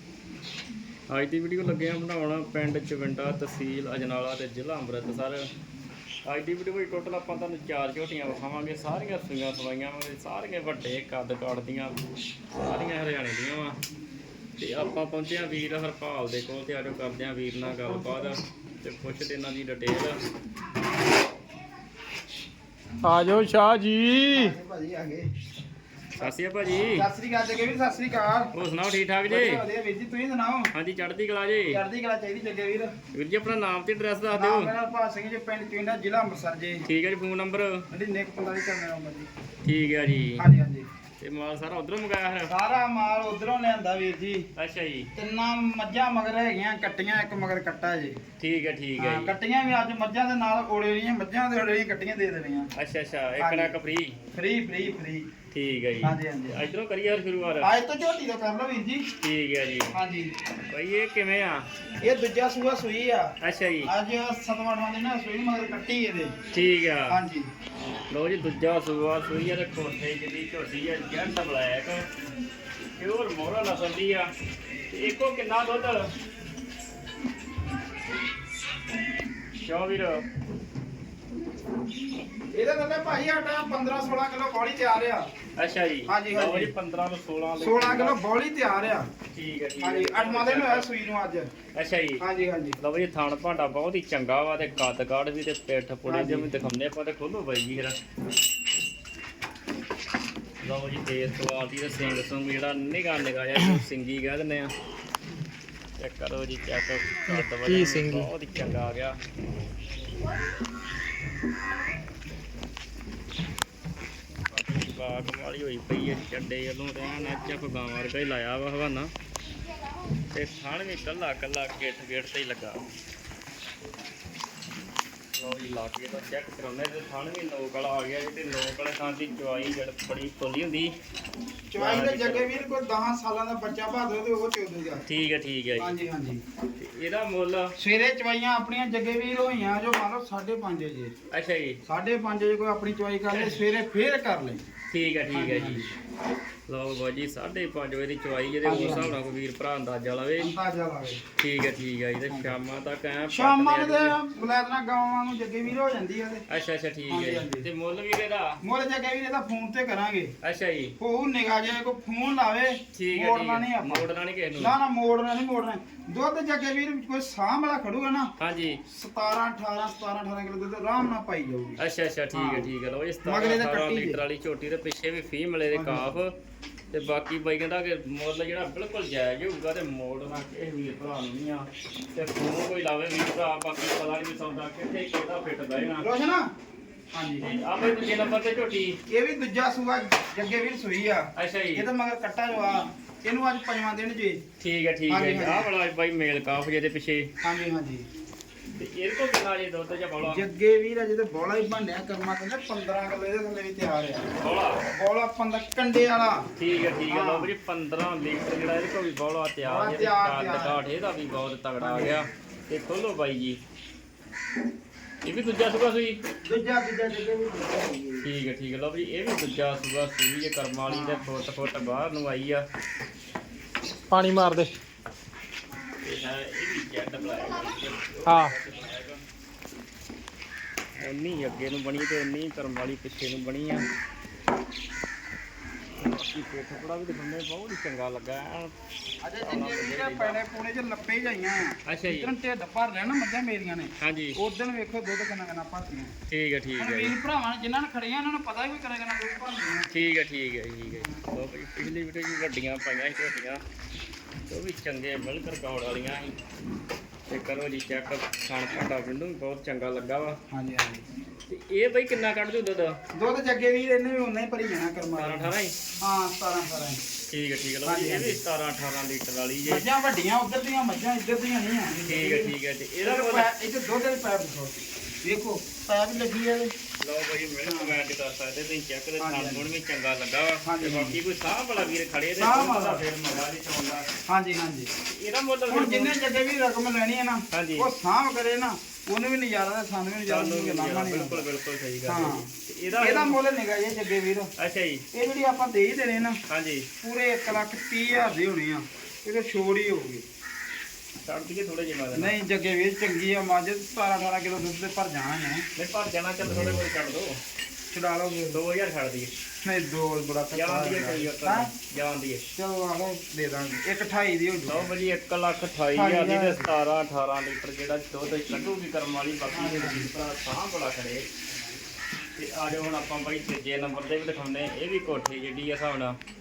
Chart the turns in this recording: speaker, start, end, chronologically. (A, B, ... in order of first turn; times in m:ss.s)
0:01.1-0:05.5 A
0:06.2-0:12.0 A
0:12.6-0:13.8 A
0:14.6-0:20.2 A
0:17.6-0:18.3 B
0:23.0-0:24.6 C
0:24.3-0:25.3 B
0:26.2-0:27.1 A
0:26.9-0:28.5 B
0:28.5-0:29.6 A
0:29.3-0:30.7 B
0:30.7-0:31.8 A
0:31.7-0:32.9 B
0:33.1-0:34.7 A
0:34.3-0:36.8 B
0:36.8-0:37.8 A
0:37.9-0:39.3 B
0:39.6-0:40.4 A
0:40.4-0:40.8 B
0:41.2-0:42.5 A
0:42.5-0:44.5 B
0:44.6-0:45.1 A
0:45.2-0:48.2 B
0:48.4-0:49.3 A
0:49.0-0:52.7 B
0:52.8-0:54.2 A
0:53.4-0:53.8 B
0:54.3-0:55.3 B
0:55.5-0:57.7 A
0:56.0-0:56.6 B
0:57.6-0:59.1 B
0:59.2-1:00.0 A
0:59.9-1:00.3 B
1:00.7-1:01.7 A
1:02.0-1:03.3 B
1:03.4-1:03.9 A
1:03.8-1:06.3 B
1:06.5-1:07.2 A
1:07.1-1:07.5 B
1:08.1-1:12.1 A
1:13.0-1:14.3 A
1:14.9-1:16.1 A
1:19.6-1:20.2 A
1:22.5-1:25.3 B
1:25.6-1:28.2 A
1:26.1-1:26.7 B
1:27.6-1:29.1 B
1:29.3-1:30.9 A
1:29.8-1:31.5 B
1:31.7-1:32.2 A
1:32.2-1:32.8 B
1:32.8-1:38.0 A
1:36.0-1:36.5 B
1:40.6-1:44.7 A
1:46.0-1:49.2 A
1:47.3-1:48.3 C
1:54.5-1:59.1 A
2:00.3-2:02.8 A
2:05.4-2:11.0 A
2:11.7-2:15.0 B
2:11.8-2:12.6 A
2:15.1-2:16.0 A
2:15.8-2:16.4 B
2:16.8-2:17.7 A
2:17.8-2:21.1 B
2:21.3-2:21.8 A
2:21.8-2:24.6 B
2:23.3-2:23.6 A
2:24.9-2:25.8 A
2:25.3-2:25.9 B
2:26.7-2:30.5 A
2:28.6-2:29.2 B
2:30.4-2:31.2 B
2:31.4-2:34.2 A
2:32.3-2:32.6 B
2:33.3-2:36.4 B
2:36.5-2:38.6 A
2:37.1-2:37.7 B
2:38.6-2:40.3 B
2:40.4-2:41.0 A
2:41.0-2:44.0 B
2:42.9-2:44.8 A
2:44.6-2:48.3 B
2:48.4-2:48.8 A
2:48.9-2:51.8 B
2:51.8-2:56.3 A
2:52.3-2:52.7 B
2:53.2-2:54.2 B
2:55.7-2:56.1 B
2:56.9-3:06.1 A
3:06.0-3:06.4 B
3:07.1-3:07.5 B
3:07.4-3:09.0 A
3:09.1-3:14.4 B
3:11.4-3:11.9 A
3:14.6-3:17.3 A
3:15.1-3:15.7 B
3:17.4-3:18.0 B
3:18.7-3:20.4 A
3:20.3-3:24.3 B
3:24.4-3:24.8 A
3:24.9-3:26.5 B
3:26.6-3:33.6 A
3:27.1-3:27.5 B
3:29.6-3:30.8 B
3:31.8-3:32.2 B
3:35.2-3:36.2 A
3:36.5-3:38.3 B
3:38.2-3:42.6 A
3:40.9-3:41.3 B
3:44.1-3:44.7 C
3:46.0-3:49.2 A
3:48.2-3:48.5 C
3:51.0-3:53.9 A
3:56.0-3:58.8 A
3:59.2-4:06.1 B
3:59.4-4:00.4 A
4:01.9-4:02.3 A
4:04.0-4:04.4 A
4:06.3-4:07.1 A
4:06.8-4:09.9 B
4:09.9-4:13.6 A
4:14.5-4:16.4 A
4:17.3-4:20.4 A
4:20.5-4:21.0 B
4:21.5-4:23.0 A
4:23.1-4:27.0 B
4:25.2-4:25.8 A
4:27.3-4:29.8 A
4:27.8-4:28.4 B
4:29.6-4:36.7 B
4:32.0-4:33.5 A
4:37.0-4:44.1 A
4:37.6-4:37.9 B
4:39.2-4:39.6 B
4:40.6-4:41.2 B
4:42.4-4:43.0 B
4:44.3-4:44.9 B
4:45.1-4:46.2 A
4:45.7-4:51.4 B
4:47.5-4:47.9 A
4:50.3-4:53.4 A
4:52.1-4:54.5 B
4:54.6-4:55.0 A
4:55.1-4:56.4 B
4:56.5-4:56.9 A
4:57.0-5:00.2 B
5:01.2-5:02.3 A
5:02.1-5:05.6 B
5:05.8-5:07.4 A
5:07.9-5:08.6 B
5:08.5-5:09.3 A
5:09.6-5:11.7 B
5:10.5-5:12.4 A
5:12.6-5:14.9 B
5:14.6-5:21.3 A
5:15.9-5:16.7 B
5:19.5-5:20.1 B
5:22.4-5:26.2 A